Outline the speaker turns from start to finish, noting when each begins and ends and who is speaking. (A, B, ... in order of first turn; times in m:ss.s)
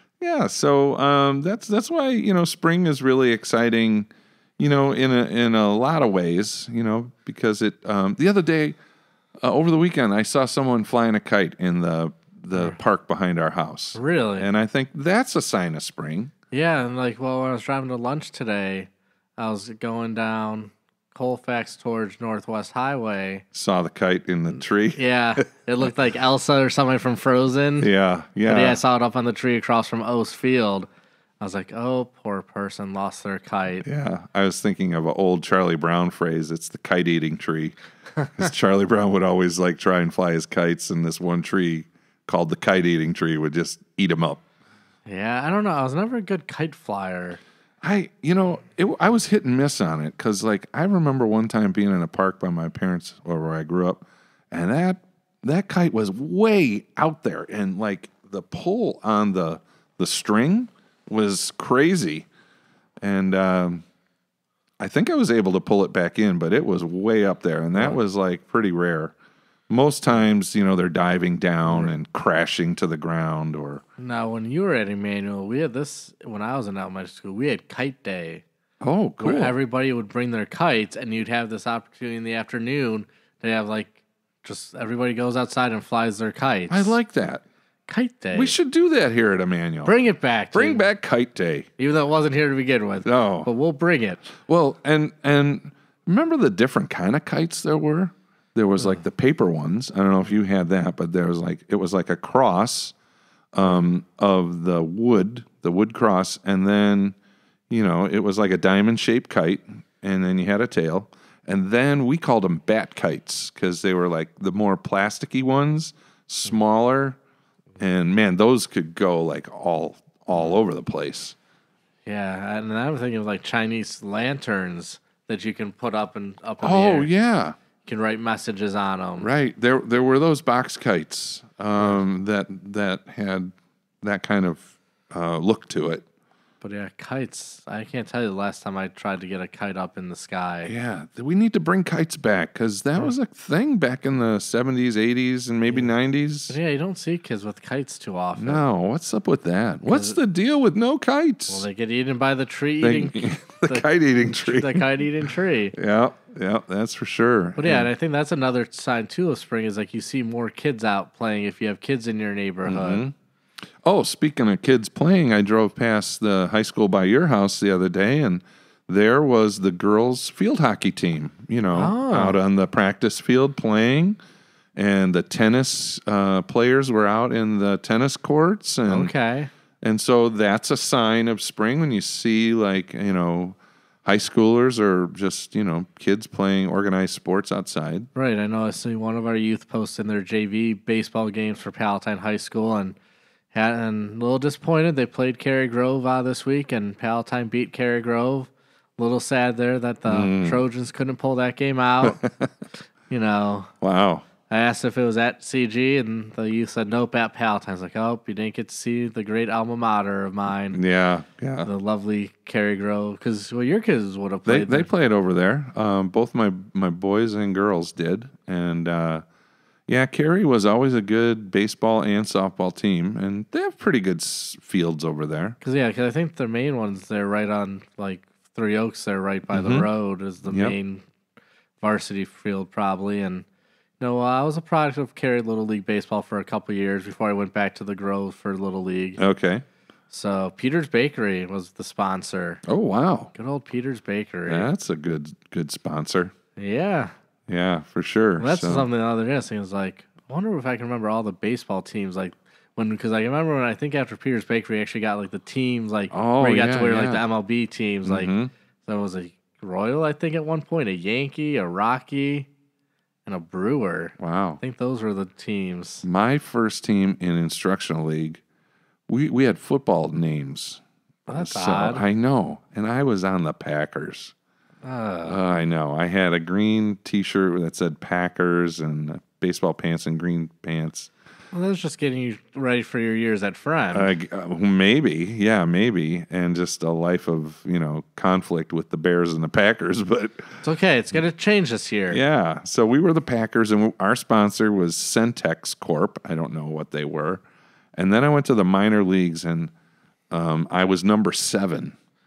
0:00.2-0:08.8 A
0:09.4-0:16.3 A
0:13.9-0:14.5 B
0:16.5-0:23.4 B
0:23.5-0:25.4 A
0:24.9-0:27.9 B
0:27.8-0:28.8 A
0:28.4-0:30.9 B
0:31.4-0:33.8 B
0:33.8-0:37.7 A
0:38.3-0:44.4 A
0:45.0-0:47.4 B
0:47.8-1:02.3 A
1:03.0-1:03.8 A
1:04.8-1:09.1 A
1:09.7-1:13.8 A
1:11.7-1:11.9 B
1:14.0-1:18.4 B
1:18.8-1:19.5 A
1:19.2-1:27.0 B
1:26.7-1:27.4 A
1:27.9-1:28.5 B
1:28.3-1:29.9 A
1:29.8-1:30.9 B
1:30.5-1:31.7 A
1:31.8-1:34.3 B
1:33.0-1:33.5 A
1:34.4-1:42.9 A
1:43.5-1:47.2 A
1:47.7-1:57.2 A
1:57.8-2:01.4 A
2:02.0-2:07.1 B
2:06.6-2:07.6 A
2:07.8-2:09.3 B
2:09.2-2:16.0 A
2:16.6-2:20.7 B
2:20.6-2:26.5 A
2:26.5-2:28.6 B
2:28.4-2:31.6 A
2:29.9-2:30.2 B
2:31.5-2:35.7 B
2:32.8-2:34.8 A
2:35.7-2:37.9 A
2:37.6-2:43.0 B
2:42.6-2:43.1 A
2:43.8-2:54.2 A
2:51.7-2:52.4 B
2:54.8-2:59.1 A
2:58.9-2:59.5 B
2:59.8-3:08.1 A
3:08.1-3:13.0 B
3:13.5-3:22.2 B
3:20.1-3:20.6 A
3:22.0-3:22.5 A
3:23.1-3:23.7 B
3:23.8-3:24.2 A
3:24.5-3:30.8 B
3:30.7-3:31.7 A
3:31.6-3:34.9 B
3:34.4-3:39.2 A
3:39.9-3:45.6 A
3:45.6-3:51.0 B
3:49.5-3:49.9 A
3:50.4-3:50.8 A
3:51.8-3:53.4 B
3:54.0-3:59.2 B
3:59.2-3:59.6 A
4:00.1-4:02.6 B
4:02.6-4:03.3 A
4:03.3-4:04.7 B
4:04.5-4:06.3 A
4:06.6-4:07.1 B
4:07.5-4:08.9 A
4:08.4-4:18.3 B
4:16.1-4:17.2 A
4:18.0-4:18.5 A
4:18.8-4:22.5 B
4:23.2-4:26.0 B
4:24.2-4:24.6 A
4:26.0-4:28.4 A
4:29.1-4:30.8 A
4:31.3-4:32.0 B
4:31.3-4:34.3 A
4:34.8-4:35.4 B
4:35.2-4:41.1 A
4:41.5-4:44.1 B
4:43.9-4:50.6 A
4:50.6-4:52.2 B
4:52.1-4:57.4 A
4:57.9-4:59.7 A
5:00.3-5:01.9 A